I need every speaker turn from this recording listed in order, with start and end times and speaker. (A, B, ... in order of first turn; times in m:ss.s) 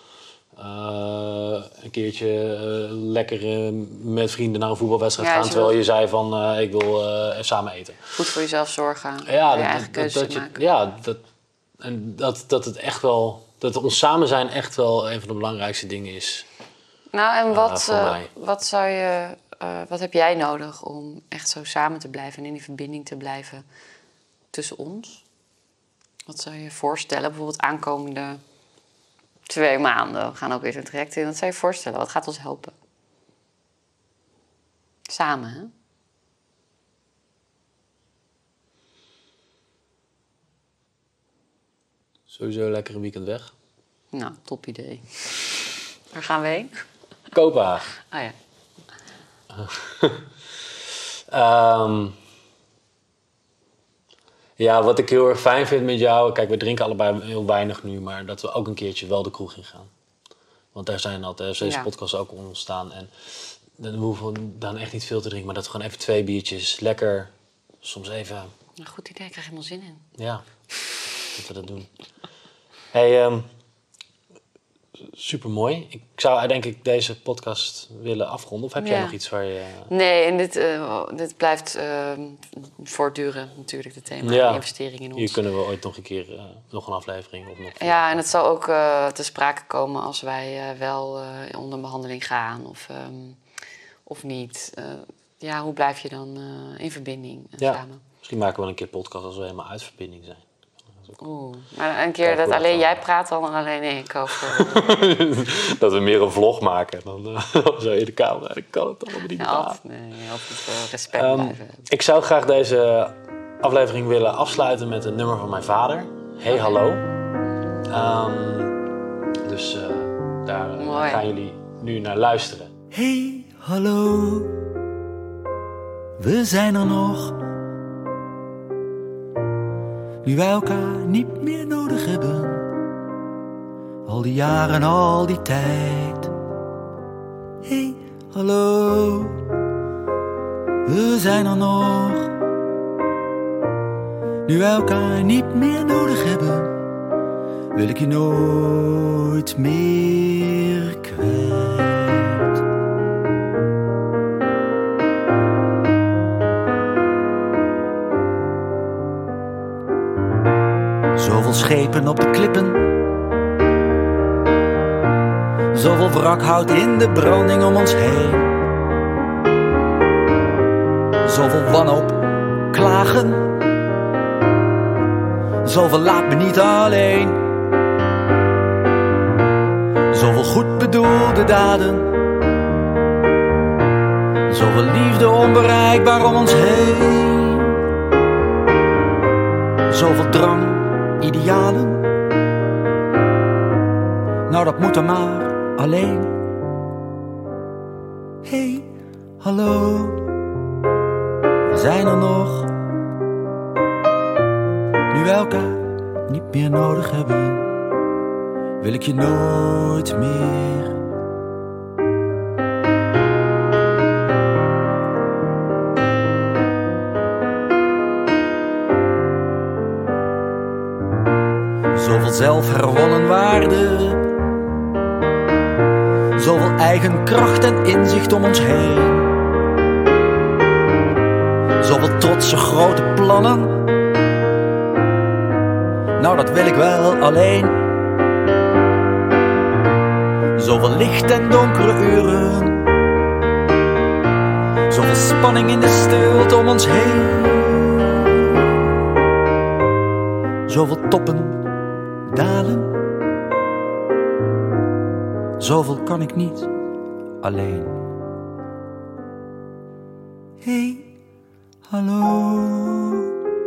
0:00.6-0:08.2 A
0:05.2-0:05.8 B
0:08.2-0:10.6 B
0:09.3-0:11.2 A
0:11.8-0:16.5 A
0:17.1-0:23.6 B
0:17.5-0:18.3 A
0:24.5-0:25.2 B
0:26.3-0:28.4 B
0:29.5-0:32.7 B
0:35.1-0:35.7 B
0:42.3-0:43.5 A
0:44.1-0:45.1 B
0:46.1-0:46.7 B
0:47.3-0:47.9 A
0:48.0-0:48.3 B
0:49.5-0:50.3 A
0:51.3-0:52.2 A
0:54.6-0:59.9 A
1:00.7-1:08.5 A
1:01.6-1:01.9 B
1:08.8-1:10.0 B
1:10.2-1:10.4 A
1:11.3-1:11.9 A
1:12.9-1:13.5 A
1:15.0-1:19.9 A
1:18.8-1:19.2 B
1:19.9-1:25.4 B
1:24.2-1:24.6 A
1:25.2-1:28.3 A
1:27.8-1:33.4 B
1:34.1-1:38.0 B
1:37.6-1:40.4 A
1:41.2-1:45.0 B
1:42.2-1:43.0 A
1:44.3-1:49.8 A
1:49.1-1:51.9 B
1:51.1-1:57.1 A
1:57.9-1:58.8 A
1:59.4-2:02.7 A
2:00.8-2:01.2 B
2:02.9-2:04.7 C
2:06.2-2:07.4 C
2:10.2-2:12.7 C
2:14.1-2:16.3 C
2:17.6-2:19.5 C
2:20.9-2:22.4 C
2:24.5-2:26.8 C
2:27.7-2:32.6 C
2:41.2-2:42.8 C
2:45.7-2:48.6 C
2:51.2-2:53.5 C
2:55.6-2:57.4 C
3:00.1-3:02.1 C
3:04.5-3:07.8 C
3:09.9-3:12.0 C
3:14.5-3:16.4 C
3:18.4-3:20.3 C
3:21.7-3:22.7 C
3:25.1-3:27.7 C
3:28.8-3:31.0 C
3:41.9-3:44.3 C
3:46.4-3:49.4 C
3:51.8-3:53.9 C
3:56.2-3:57.9 C
4:00.6-4:02.9 C
4:04.9-4:08.6 C
4:10.7-4:11.7 C
4:12.3-4:13.0 C
4:15.6-4:16.7 C
4:17.4-4:18.0 C
4:20.6-4:21.1 C
4:21.9-4:23.3 C